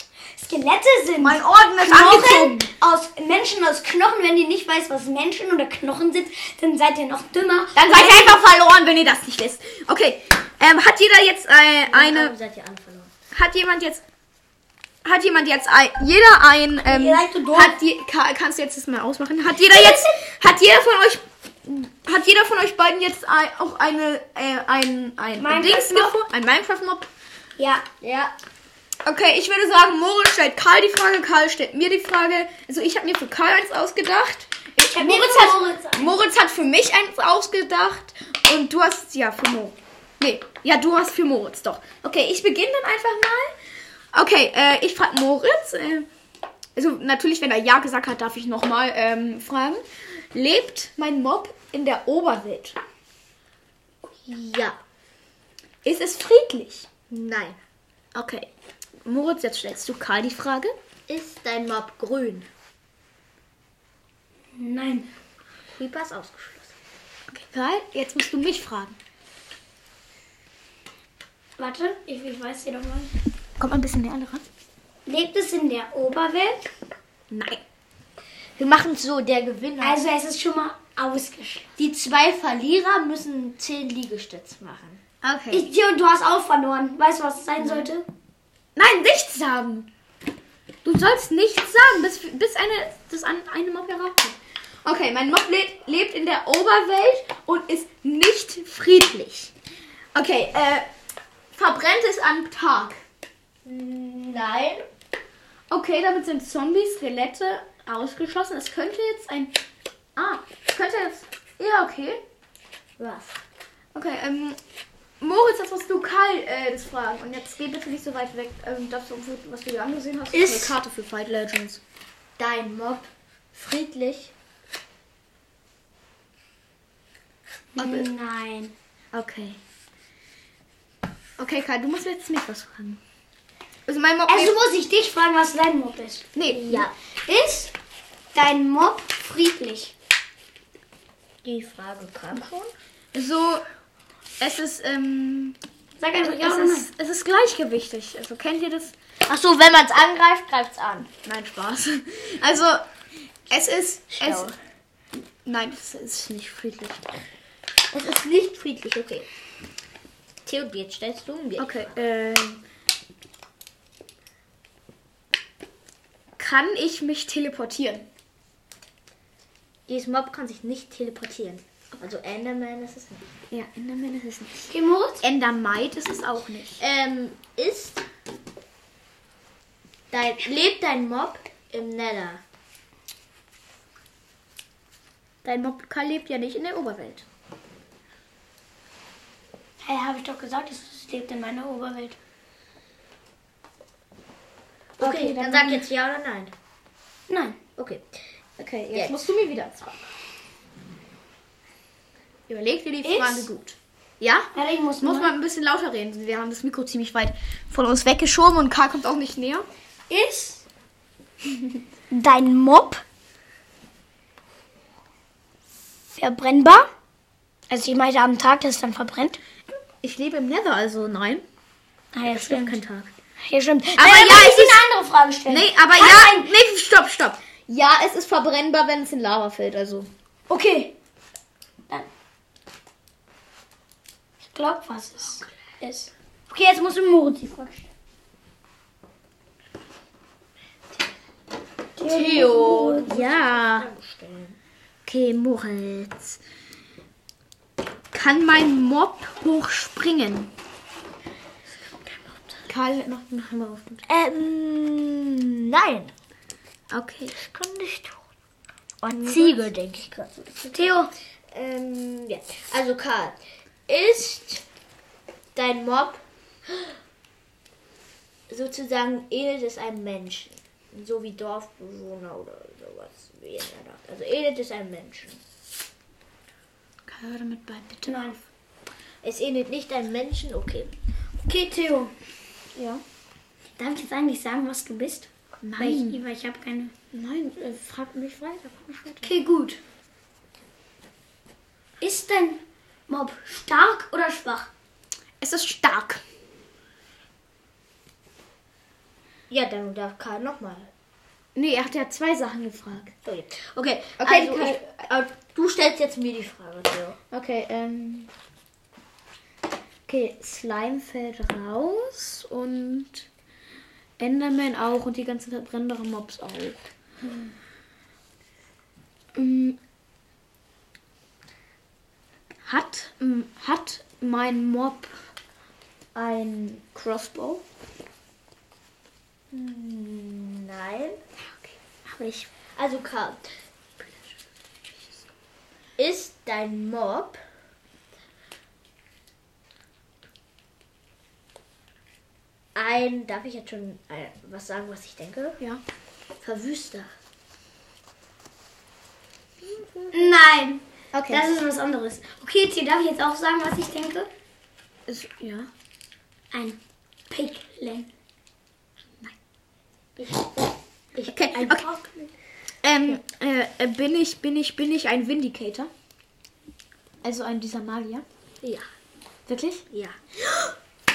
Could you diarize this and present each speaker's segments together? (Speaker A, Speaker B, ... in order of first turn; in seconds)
Speaker A: 0.4-8.4, 16.8-17.8, 25.4-26.1, 27.6-27.8, 34.9-36.1, 64.5-65.1, 71.6-73.1, 75.0-76.7, 79.8-81.7, 85.5-88.0, 120.3-120.7, 127.8-128.7, 134.3-136.3, 137.2-137.7, 138.3-139.9, 146.0-146.9, 174.7-175.2, 189.8-192.2, 197.3-197.6, 203.0-203.5, 204.5-205.3, 212.1-213.0, 216.2-216.9, 217.7-219.4, 222.1-222.8, 223.4-226.5, 230.5-230.9, 234.5-237.9, 242.0-243.1, 260.7-261.1, 278.0-278.4, 281.4-282.1, 283.8-286.9, 289.2-289.8, 292.0-294.7, 350.1-354.3, 356.5-356.8, 357.3-358.1, 361.5-361.9
Speaker B: 1.2-2.7, 7.8-12.3, 13.3-14.0, 15.0-27.1, 29.0-43.5, 44.1-46.1, 46.8-49.8, 50.3-52.8, 55.8-56.9, 58.1-58.5, 59.0-60.7, 67.3-69.0, 73.6-74.4, 77.3-77.6, 85.2-85.7, 88.8-89.9, 90.8-99.5, 100.1-100.8, 101.5-103.0, 105.7-109.5, 110.2-112.2, 113.9-114.6, 115.2-121.8, 127.8-128.1, 129.1-129.6, 131.4-133.0, 133.9-134.5, 136.3-136.9, 143.1-143.6, 144.4-145.6, 146.2-148.9, 151.2-152.8, 153.5-154.6, 155.4-157.0, 161.6-162.6, 166.4-168.1, 173.5-176.8, 185.4-187.2, 195.0-195.8, 198.6-200.0, 202.5-204.5, 205.0-209.7, 220.0-221.4, 224.0-224.8, 225.5-230.1, 242.3-243.9, 245.1-246.4, 248.1-250.5, 252.7-254.0, 256.9-257.4, 259.1-259.7, 277.1-278.4, 282.7-283.0, 285.6-286.2, 287.1-289.3, 295.4-296.2, 301.5-303.1, 304.2-305.0, 307.3-308.3, 310.1-313.2, 314.2-316.9, 319.3-319.8, 322.6-325.1, 326.1-327.6, 331.4-332.5, 351.1-351.5, 355.1-355.7, 361.2-361.9, 362.8-365.9, 367.2-368.2, 369.5-369.8
Speaker C: 11.9-13.1, 28.0-28.3, 54.1-54.8, 57.1-57.6, 61.1-62.5, 65.7-66.8, 78.6-80.0, 81.8-85.0, 103.6-104.8, 113.0-113.4, 122.4-124.3, 136.5-136.9, 141.4-142.7, 149.3-151.1, 154.1-154.5, 157.9-159.3, 160.4-161.9, 169.9-173.2, 176.8-178.0, 180.1-182.4, 195.0-196.5, 197.8-198.1, 210.1-210.5, 222.3-223.1, 242.0-244.6, 254.1-256.1, 257.4-258.2, 259.0-260.6, 261.5-264.6, 265.5-266.9, 268.5-275.4, 279.2-280.9, 299.5-300.9, 303.2-307.2, 329.5-331.2, 332.7-333.4, 336.0-337.4, 342.7-345.6, 346.4-347.1, 360.2-361.9, 368.6-368.9, 369.9-370.2